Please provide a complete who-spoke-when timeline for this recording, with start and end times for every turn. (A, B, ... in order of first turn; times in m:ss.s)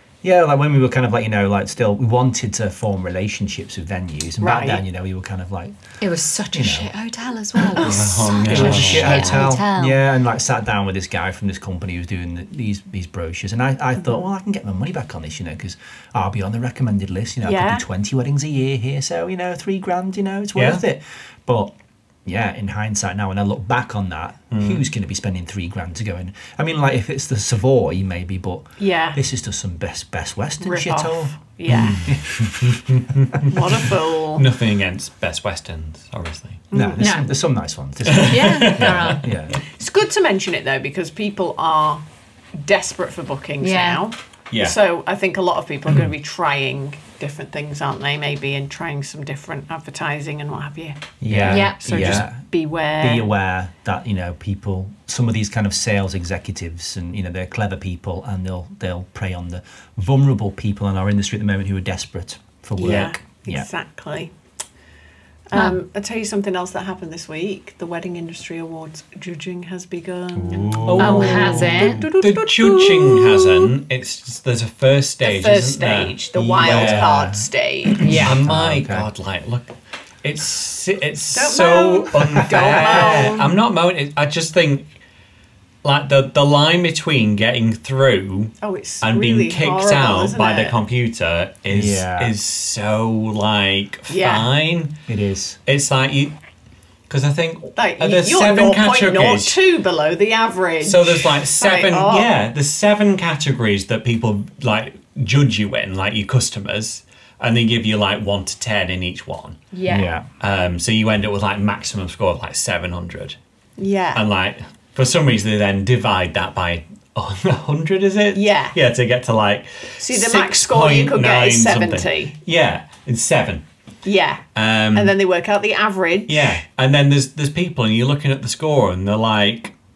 0:00.2-0:05.7 A
0:04.4-0:04.8 B
0:06.0-0:10.0 C
0:06.5-0:06.9 A
0:07.8-0:09.5 D
0:08.0-0:21.7 A
0:17.4-0:17.8 B
0:20.5-0:20.8 D
0:22.2-0:32.8 A
0:24.5-0:24.8 D
0:28.8-0:29.2 B
0:30.6-0:32.0 B
0:31.7-0:32.0 D
0:32.6-0:36.6 D
0:33.4-0:34.4 B
0:36.7-0:37.0 B
0:36.7-0:39.6 A
0:37.0-0:37.3 C
0:38.0-0:39.2 D
0:38.3-0:39.3 C
0:39.6-0:42.0 B
0:42.6-0:53.3 B
0:43.6-0:44.0 C
0:44.5-0:44.8 D
0:51.2-0:52.4 A
0:51.3-0:52.3 D
0:51.5-0:52.1 C
0:53.0-1:03.7 A
1:02.8-1:04.3 B
1:02.8-1:03.1 D
1:05.5-1:13.7 B
1:05.5-1:05.8 C
1:10.3-1:12.0 A
1:10.8-1:17.2 D
1:11.0-1:12.0 C
1:15.2-1:18.2 B
1:16.3-1:19.1 A
1:18.0-1:18.3 C
1:18.2-1:24.9 D
1:21.3-1:23.5 B
1:22.4-1:23.4 A
1:25.8-1:34.9 D
1:28.6-1:30.8 B
1:31.7-1:32.3 A
1:34.1-1:34.5 B
1:35.1-1:35.6 A
1:35.6-1:36.3 D
1:37.1-1:39.6 D
1:37.8-1:42.3 B
1:40.8-1:49.7 D
1:49.7-1:50.1 B
1:49.9-1:50.2 A
1:50.4-1:53.4 D
1:53.8-1:54.2 B
1:54.1-2:03.6 D
1:58.3-1:58.8 B
2:00.0-2:02.3 B
2:04.0-2:04.4 B
2:04.5-2:05.1 D
2:04.9-2:06.6 B
2:06.3-2:09.7 D